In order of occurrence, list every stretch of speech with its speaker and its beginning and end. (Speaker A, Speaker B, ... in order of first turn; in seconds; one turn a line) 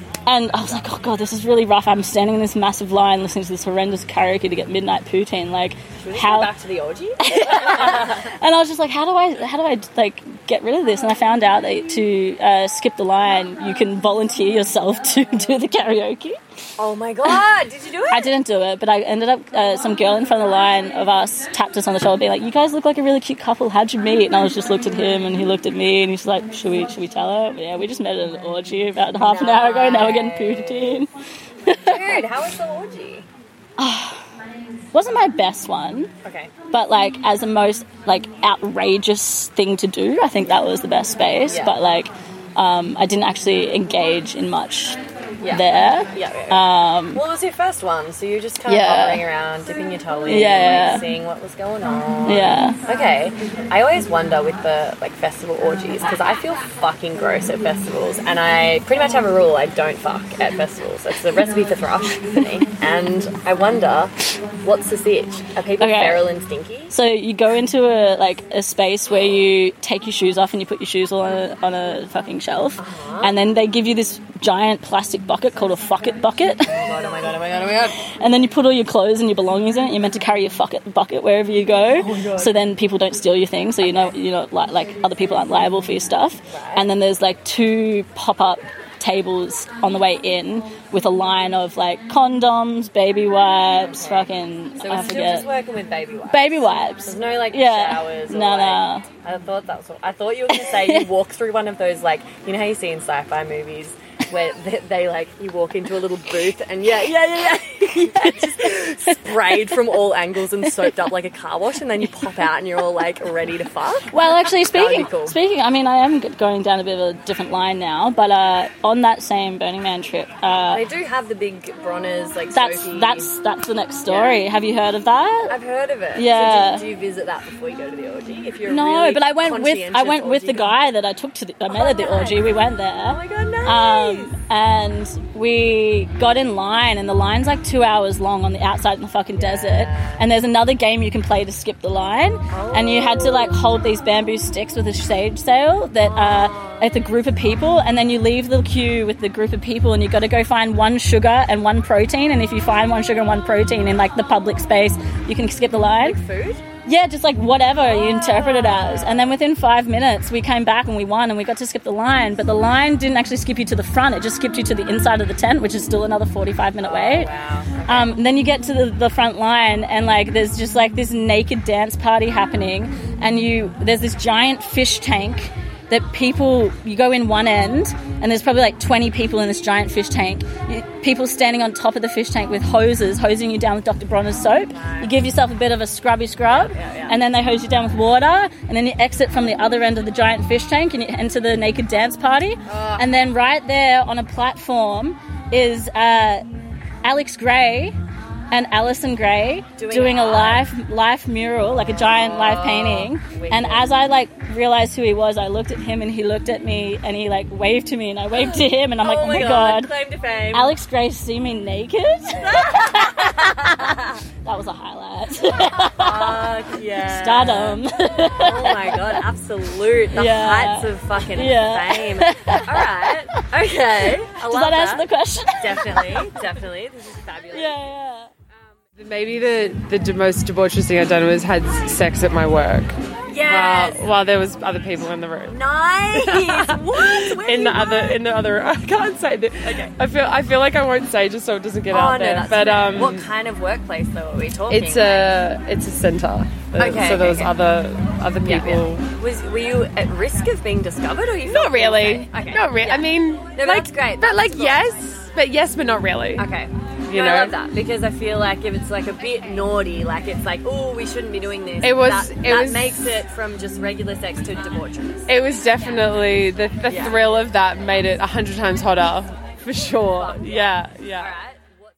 Speaker A: 0.3-6.5
Speaker B: 6.0-8.3
Speaker A: 7.2-16.4
Speaker B: 16.8-18.3
Speaker A: 18.1-31.1
Speaker B: 29.2-31.0
Speaker A: 31.7-32.2
Speaker B: 31.7-33.3
Speaker A: 33.8-34.2
Speaker A: 34.9-36.1
Speaker B: 36.2-36.5
Speaker A: 36.7-45.0
Speaker B: 41.5-41.7
Speaker B: 45.4-66.9
Speaker A: 45.5-47.2
Speaker A: 48.7-49.2
Speaker A: 50.3-51.0
Speaker A: 52.3-52.8
Speaker A: 65.8-66.3
Speaker A: 66.9-76.7
Speaker B: 72.8-73.3
Speaker B: 76.7-78.0
Speaker A: 78.2-95.5
Speaker B: 82.0-82.5
Speaker B: 86.5-86.9
Speaker B: 93.8-114.1
Speaker A: 96.3-99.1
Speaker A: 100.6-101.0
Speaker A: 107.1-107.4
Speaker A: 108.2-108.7
Speaker A: 114.1-120.8
Speaker B: 114.7-115.4
Speaker B: 120.7-123.3
Speaker A: 122.5-125.5
Speaker B: 124.1-124.4
Speaker B: 125.5-130.8
Speaker A: 126.2-126.8
Speaker A: 128.7-156.2
Speaker B: 131.7-134.4
Speaker B: 139.4-140.3
Speaker B: 142.5-143.6
Speaker B: 146.0-146.9
Speaker B: 156.0-156.6
Speaker A: 156.8-167.3
Speaker B: 157.9-159.0
Speaker B: 166.8-168.2
Speaker A: 167.9-196.4
Speaker B: 184.7-185.1
Speaker B: 186.5-187.2
Speaker B: 192.7-193.1
Speaker A: 197.0-198.0
Speaker A: 198.5-209.9
Speaker B: 199.8-200.7
Speaker B: 202.1-203.9
Speaker B: 208.4-210.8
Speaker A: 210.5-213.8
Speaker B: 212.3-214.2
Speaker A: 214.4-216.5
Speaker B: 215.7-217.8
Speaker A: 217.1-219.1
Speaker B: 218.3-227.8
Speaker A: 220.1-222.6
Speaker A: 224.5-226.3
Speaker A: 227.5-228.3
Speaker C: 229.0-235.6
Speaker B: 233.3-234.1
Speaker B: 235.4-238.0
Speaker C: 236.1-243.3
Speaker B: 241.9-245.4
Speaker C: 244.7-249.1
Speaker B: 246.8-247.5
Speaker B: 248.4-254.9
Speaker C: 251.5-256.5
Speaker B: 256.4-265.3
Speaker C: 257.1-257.6
Speaker C: 261.8-263.2
Speaker C: 265.3-271.4
Speaker B: 266.8-267.4
Speaker B: 270.1-271.6